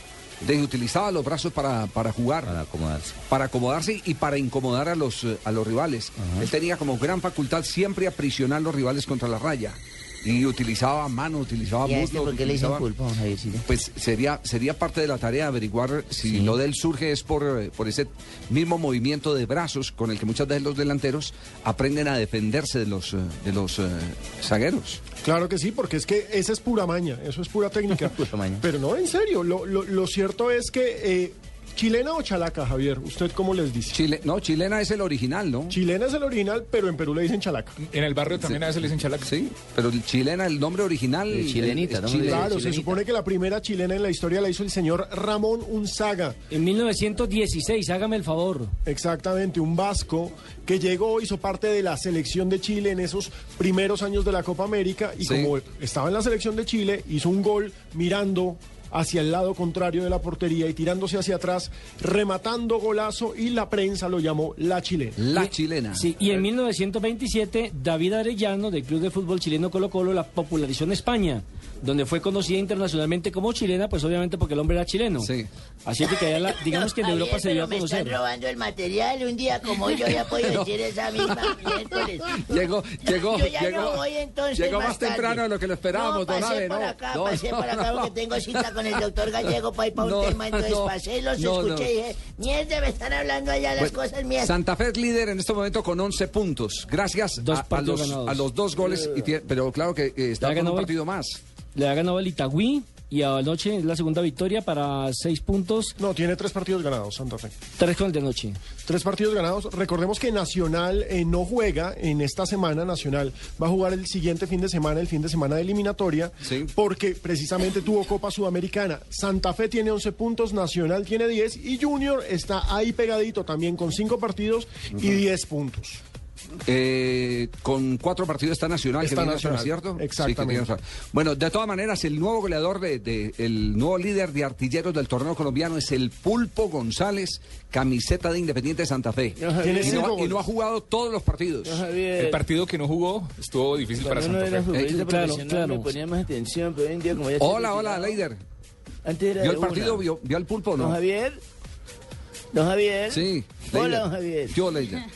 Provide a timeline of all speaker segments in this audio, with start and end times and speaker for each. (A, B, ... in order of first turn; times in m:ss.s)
0:00.4-0:02.6 A
0:02.5-0:03.1 B
0:03.3-0:12.9 A
0:11.8-0:13.6 B
0:13.6-0:25.0 A
0:16.2-0:16.6 B
0:25.2-0:34.0 C
0:28.0-0:28.6 B
0:33.9-0:35.8 A
0:35.7-0:37.8 C
0:37.8-0:39.3 D
0:38.3-0:42.5 A
0:41.3-0:43.0 B
0:42.2-0:46.4 C
0:46.5-0:48.7 E
0:48.9-1:05.2 C
0:55.2-0:55.5 A
1:05.2-1:06.1 A
1:05.3-1:15.3 E
1:15.2-1:15.5 A
1:15.8-1:18.2 E
1:16.0-1:34.6 B
1:20.3-1:32.0 A
1:33.8-1:41.4 A
1:37.4-1:38.5 E
1:38.8-1:39.3 F
1:40.4-1:40.9 E
1:41.8-1:45.9 E
1:46.0-1:47.5 C
1:47.8-1:48.6 E
1:48.8-2:06.0 C
1:56.4-1:56.7 A
2:06.7-2:21.8 A
2:09.0-2:10.7 C
2:19.4-2:20.2 F
2:19.6-2:20.5 C
2:21.6-2:22.5 F
2:22.2-2:24.7 D
2:24.0-2:28.3 F
2:24.7-2:25.2 A
2:25.1-2:25.9 E
2:27.4-2:28.4 A
2:29.0-2:30.1 F
2:29.4-2:31.0 A
2:30.8-2:31.4 F
2:32.5-2:34.6 F
2:33.1-2:35.0 A